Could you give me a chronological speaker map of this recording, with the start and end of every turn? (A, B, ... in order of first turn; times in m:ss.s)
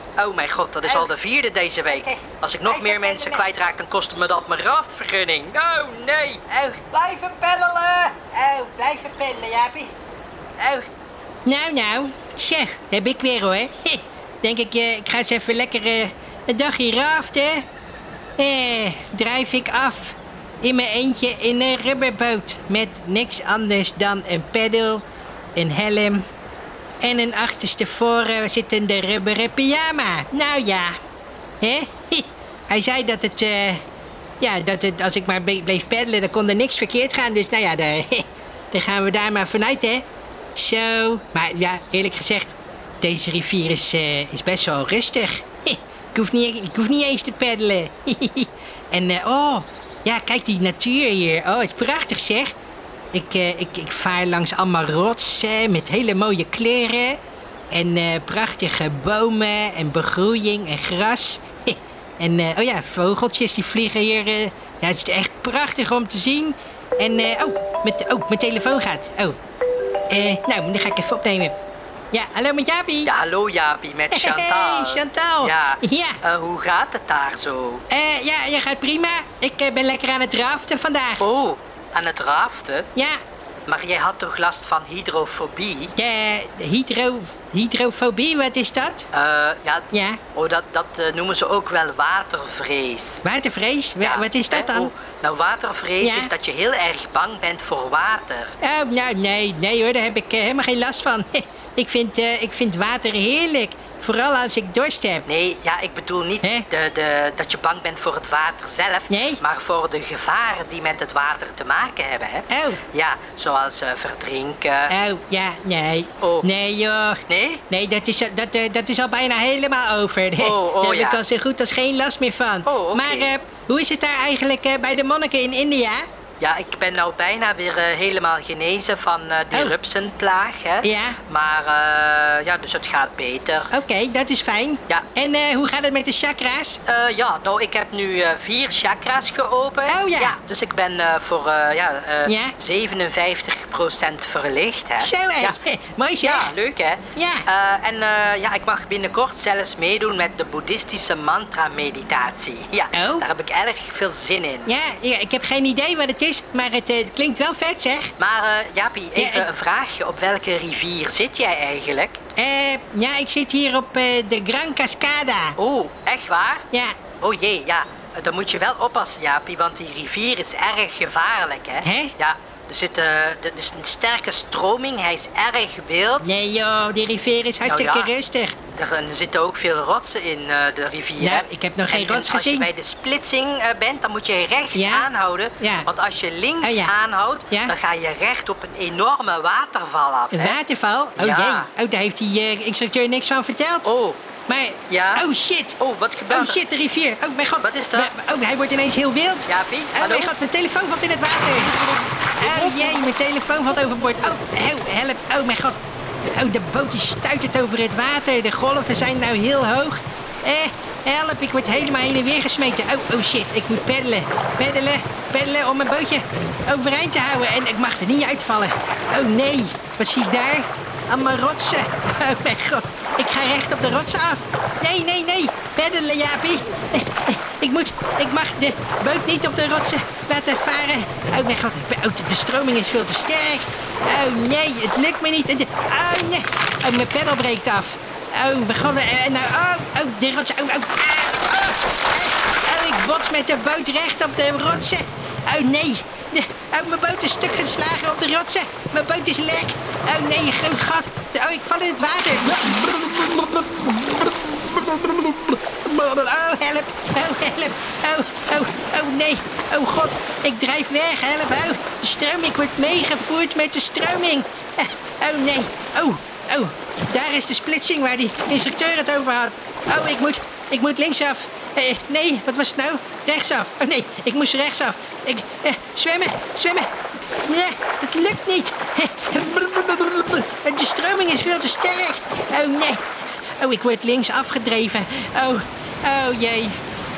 0:00.2-0:06.4 A
0:02.0-0:03.5 B
0:06.5-0:09.9 B
0:06.9-0:08.1 A
0:10.6-0:10.8 B
0:11.4-0:17.6 B
0:18.4-0:25.0 B
0:25.6-0:26.2 B
0:27.0-0:31.0 B
0:31.6-0:33.8 B
0:34.4-0:40.0 B
0:40.6-0:52.5 B
0:53.1-0:57.2 B
0:57.7-1:09.4 B
1:10.1-1:11.5 B
1:12.1-1:13.1 B
1:13.0-1:17.8 A
1:14.1-1:16.2 B
1:17.9-1:21.2 B
1:21.2-1:22.9 A
1:23.7-1:25.9 A
1:26.0-1:29.1 B
1:29.1-1:33.2 A
1:29.9-1:30.2 B
1:33.2-1:34.9 B
1:34.0-1:38.5 A
1:36.0-1:36.3 B
1:38.6-1:45.2 B
1:45.2-1:54.9 A
1:49.1-1:49.4 B
1:52.5-1:52.8 B
1:54.9-2:06.0 B
1:56.2-1:56.5 A
1:57.3-1:57.6 A
2:00.4-2:01.2 A
2:02.6-2:03.3 A
2:06.4-2:13.7 A
2:10.8-2:11.2 B
2:13.7-2:16.8 B
2:16.8-2:25.6 A
2:19.9-2:20.4 B
2:22.2-2:22.5 B
2:25.0-2:26.5 B
2:26.2-2:34.7 A
2:27.2-2:27.4 B
2:32.9-2:33.2 B
2:34.7-2:38.1 B
2:38.2-2:42.2 A
2:39.2-2:39.5 B
2:42.4-2:45.6 B
2:45.6-2:46.6 A
2:47.2-2:56.3 A
2:51.8-2:52.1 B
2:56.2-2:58.6 B
2:57.6-2:58.1 A
2:58.7-3:10.6 A
3:01.2-3:02.7 B
3:04.7-3:05.9 B
3:06.6-3:06.9 B
3:10.3-3:13.9 B
3:11.2-3:11.7 A
3:13.8-3:14.2 A
3:14.5-3:15.8 B
3:14.9-3:15.2 A
3:15.8-3:16.6 A
3:16.3-3:21.7 B
3:17.6-3:18.1 A
3:19.5-3:20.3 A
3:21.8-3:23.1 A
3:22.4-3:25.8 B
3:26.3-4:36.9 B
4:37.5-4:43.0 B
4:43.6-4:46.8 B